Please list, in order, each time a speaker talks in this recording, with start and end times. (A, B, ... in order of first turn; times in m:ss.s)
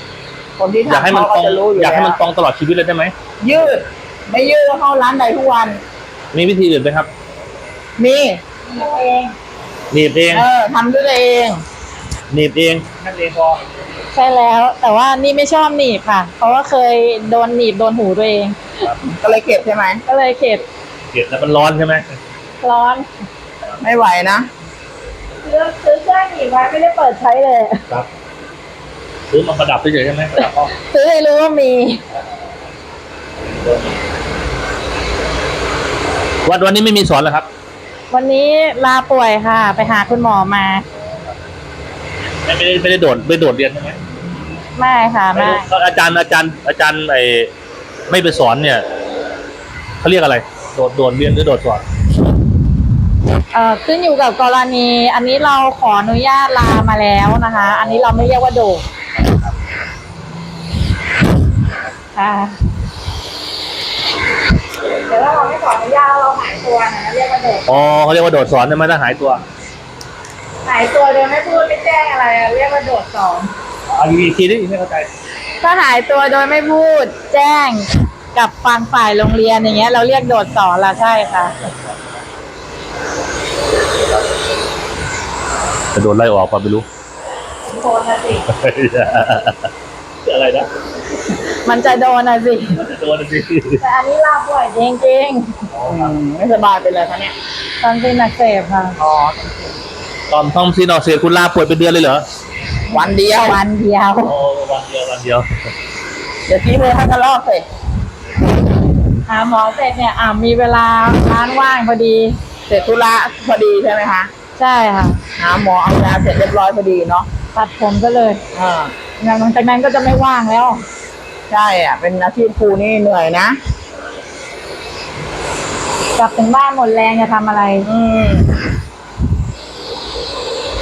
0:00.6-0:02.2 A
0:00.9-0:03.1 B
0:03.4-0:05.8 A
0:06.3-0:07.1 B
0:08.0-0:08.4 A
0:08.6-0:09.3 C
0:09.9-0:10.5 B
0:10.3-0:11.6 A
0:12.3-0:13.6 B
0:14.1-0:18.8 C
0:19.0-0:20.0 A
0:20.0-0:20.6 C
0:21.1-0:22.2 B
0:22.6-0:23.1 C
0:23.8-0:24.5 A
0:25.4-0:27.8 C
0:29.3-0:30.7 B
0:30.7-0:32.0 C
0:36.4-0:37.5 B
0:38.1-0:40.8 C
0:42.4-0:44.0 B
0:44.8-0:45.7 C
0:45.3-0:47.5 B
0:48.1-0:48.8 B
0:50.0-0:51.8 B
0:53.5-0:58.8 C
0:57.7-0:58.1 B
1:02.1-1:02.6 C
1:05.0-1:07.6 C
1:07.6-1:09.4 B
1:10.6-1:13.5 C
1:13.9-1:15.1 B
1:15.6-1:21.6 C
1:25.9-1:26.8 B
1:27.7-1:28.4 C
1:28.4-1:29.7 B
1:30.2-1:30.7 B
1:31.5-1:32.8 C
1:32.8-1:33.8 B
1:33.8-1:35.7 C
1:35.7-1:36.1 B
1:35.9-1:37.3 A
1:37.8-1:39.0 C
1:39.0-1:39.8 A
1:40.3-1:42.2 B
1:42.9-1:43.7 A
1:42.9-1:44.3 C
1:44.2-1:45.7 B
1:46.5-1:47.6 A
1:49.2-1:52.4 C
1:52.7-1:54.3 A
1:54.6-1:55.2 C
1:55.4-1:57.3 A
1:57.5-1:58.4 C
1:58.5-1:59.1 A
1:59.2-2:00.9 C
2:01.5-2:03.6 A
2:06.2-2:07.9 C
2:07.8-2:08.5 A